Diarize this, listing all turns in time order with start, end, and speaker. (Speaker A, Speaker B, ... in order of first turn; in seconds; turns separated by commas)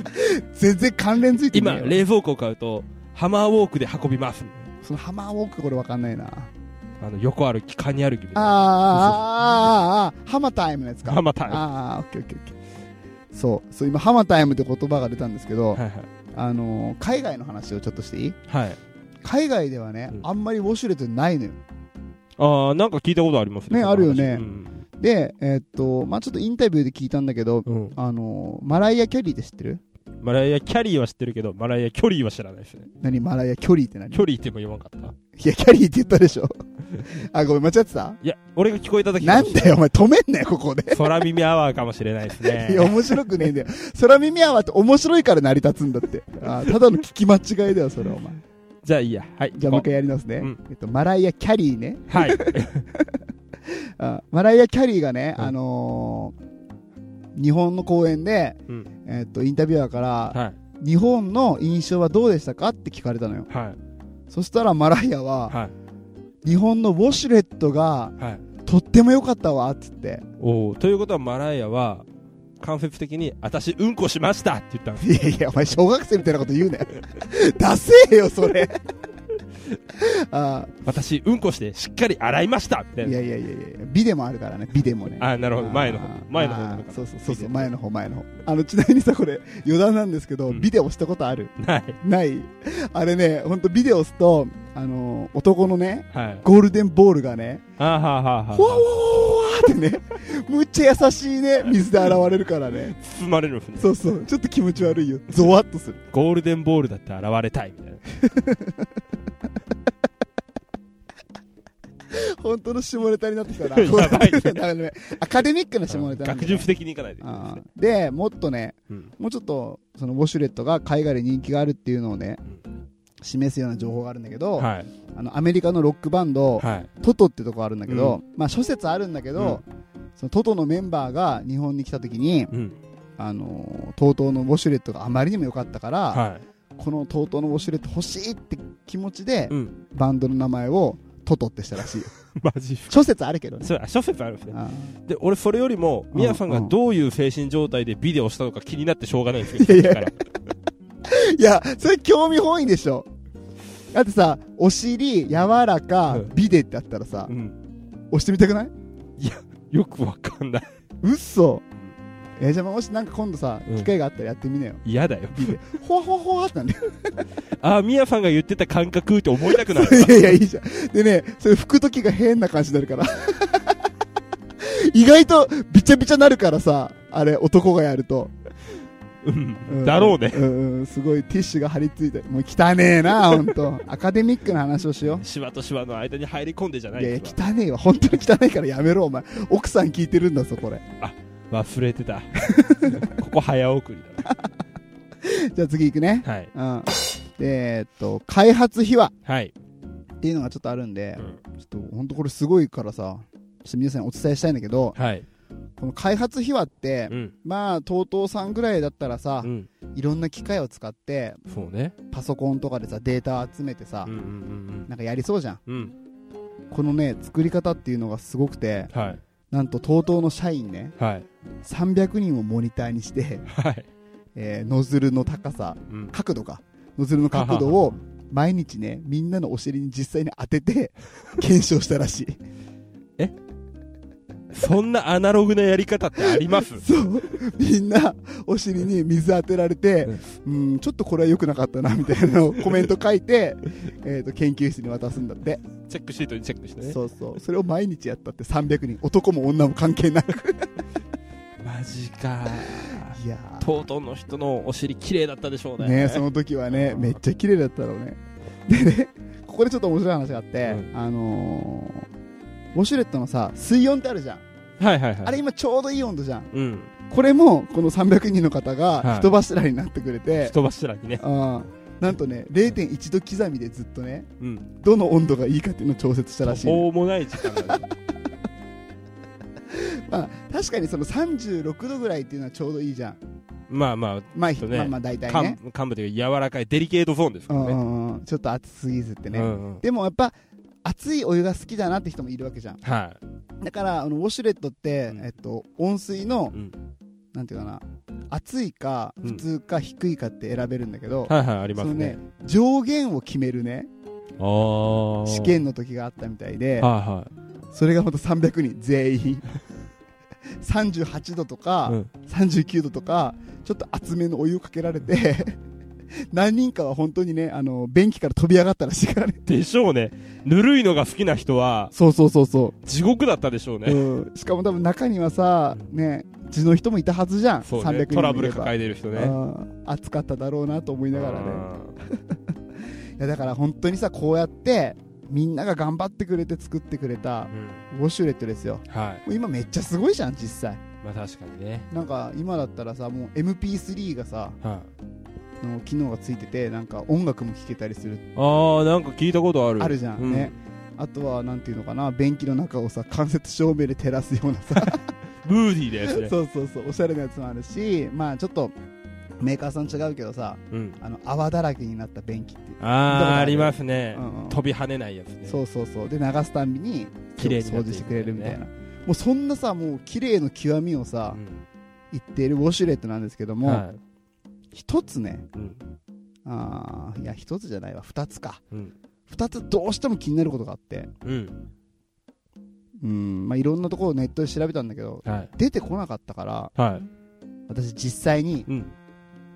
Speaker A: 0.1-2.0, Speaker B: 1.5-4.7, Speaker A: 4.8-6.5, Speaker B: 7.0-9.2, Speaker A: 8.3-12.6, Speaker B: 11.0-11.6, Speaker A: 13.3-15.8, Speaker B: 15.7-16.1, Speaker A: 16.3-18.4, Speaker B: 18.5-18.8, Speaker A: 19.2-21.6, Speaker B: 22.4-24.8, Speaker A: 23.7-24.5, Speaker A: 25.0-29.8, Speaker B: 27.6-27.9, Speaker B: 30.2-32.9, Speaker A: 33.0-34.2, Speaker B: 34.1-35.1, Speaker A: 35.4-38.2, Speaker B: 38.2-39.8, Speaker A: 39.2-41.1, Speaker B: 40.9-43.3, Speaker A: 42.4-48.4, Speaker B: 48.8-49.9, Speaker A: 49.5-56.3, Speaker B: 52.1-52.8, Speaker A: 57.3-63.5, Speaker B: 63.5-63.8, Speaker A: 64.3-65.6, Speaker B: 65.5-65.7, Speaker A: 66.4-70.2, Speaker B: 68.2-68.4, Speaker B: 70.4-72.0, Speaker B: 72.6-75.1, Speaker A: 75.0-78.8, Speaker A: 79.9-80.7, Speaker B: 80.8-83.2, Speaker A: 83.0-97.6, Speaker B: 85.2-87.7, Speaker B: 91.6-92.0, Speaker B: 96.1-96.4, Speaker B: 97.8-98.9, Speaker A: 98.5-102.9, Speaker B: 102.9-104.0, Speaker A: 103.8-106.0, Speaker B: 106.1-108.0, Speaker A: 108.2-108.9, Speaker A: 112.1-122.4, Speaker B: 113.7-114.6, Speaker B: 115.9-117.6, Speaker A: 123.2-129.6, Speaker B: 124.6-124.9, Speaker B: 126.6-126.9, Speaker B: 127.9-128.2, Speaker B: 129.3-129.6, Speaker A: 130.2-132.5, Speaker B: 132.5-132.8, Speaker A: 133.2-136.2, Speaker B: 136.1-136.4, Speaker A: 136.8-142.1, Speaker B: 139.5-139.7, Speaker B: 142.3-143.0, Speaker A: 142.9-143.7, Speaker B: 143.6-150.2, Speaker A: 144.5-144.9, Speaker A: 146.1-146.7, Speaker A: 149.5-150.2, Speaker A: 151.0-153.1, Speaker A: 153.9-157.3, Speaker B: 157.3-157.6, Speaker A: 158.1-158.7, Speaker B: 159.2-160.7, Speaker A: 161.0-161.6, Speaker A: 162.4-164.8, Speaker B: 164.8-165.6, Speaker A: 165.3-167.2, Speaker B: 167.6-170.3, Speaker A: 169.5-173.8, Speaker A: 174.6-178.3, Speaker B: 179.2-180.4, Speaker A: 179.7-185.2, Speaker B: 185.1-187.3, Speaker A: 186.9-190.8, Speaker B: 191.0-194.3, Speaker A: 192.5-193.1, Speaker A: 195.2-199.1, Speaker B: 196.2-196.5, Speaker B: 199.2-199.5, Speaker A: 200.2-204.9, Speaker B: 204.9-205.2, Speaker A: 205.8-211.4, Speaker B: 207.1-207.3, Speaker B: 209.4-209.7, Speaker B: 211.5-211.9, Speaker A: 212.1-214.1, Speaker B: 214.0-214.9, Speaker A: 214.9-215.6, Speaker B: 215.7-215.9, Speaker A: 216.7-218.9, Speaker B: 218.9-219.2, Speaker A: 219.5-220.9, Speaker B: 221.0-221.2, Speaker A: 221.6-223.5, Speaker B: 223.5-223.8, Speaker A: 224.3-232.4, Speaker B: 225.9-226.1, Speaker B: 227.3-228.0, Speaker B: 234.5-236.8, Speaker A: 236.2-245.6, Speaker B: 245.9-247.0, Speaker A: 246.8-250.7, Speaker B: 251.6-257.2, Speaker A: 252.4-253.7, Speaker A: 255.8-262.1, Speaker B: 260.6-260.9, Speaker A: 262.7-264.4, Speaker B: 264.8-265.4, Speaker A: 265.2-266.5, Speaker B: 266.5-266.9, Speaker A: 267.1-270.5, Speaker B: 269.0-269.3, Speaker B: 270.4-271.2, Speaker A: 271.2-277.8, Speaker B: 274.4-274.7, Speaker B: 276.4-277.9, Speaker A: 279.7-283.2, Speaker B: 283.7-287.8, Speaker A: 284.3-285.6, Speaker A: 287.5-292.8, Speaker B: 289.3-289.8, Speaker B: 292.8-293.2, Speaker A: 293.6-296.6, Speaker A: 297.3-303.9, Speaker B: 301.3-302.2, Speaker B: 304.4-305.6, Speaker A: 305.2-306.9, Speaker B: 306.8-307.3, Speaker A: 307.7-309.4, Speaker A: 310.6-315.6, Speaker A: 316.2-319.4, Speaker B: 319.4-321.9, Speaker A: 321.9-322.8, Speaker B: 322.8-324.0, Speaker A: 323.8-332.4, Speaker B: 327.6-329.3, Speaker B: 331.1-332.0, Speaker A: 333.2-340.8, Speaker B: 337.5-337.8, Speaker B: 338.9-339.2, Speaker B: 341.0-341.9, Speaker A: 341.9-344.6, Speaker B: 344.6-344.9, Speaker A: 345.6-348.3, Speaker B: 348.3-350.5, Speaker A: 349.8-355.0, Speaker B: 354.7-356.3, Speaker A: 356.1-358.7, Speaker A: 359.4-364.6, Speaker B: 360.7-361.0, Speaker B: 362.8-365.6, Speaker A: 365.4-371.4, Speaker B: 367.4-368.6, Speaker B: 371.3-371.6, Speaker A: 372.1-373.8, Speaker B: 373.6-374.0, Speaker A: 374.7-375.5, Speaker B: 375.5-375.8, Speaker A: 376.4-378.6, Speaker A: 379.3-381.1, Speaker B: 381.2-381.6, Speaker A: 383.0-386.7, Speaker B: 385.2-385.5, Speaker B: 386.8-387.1, Speaker A: 387.7-388.7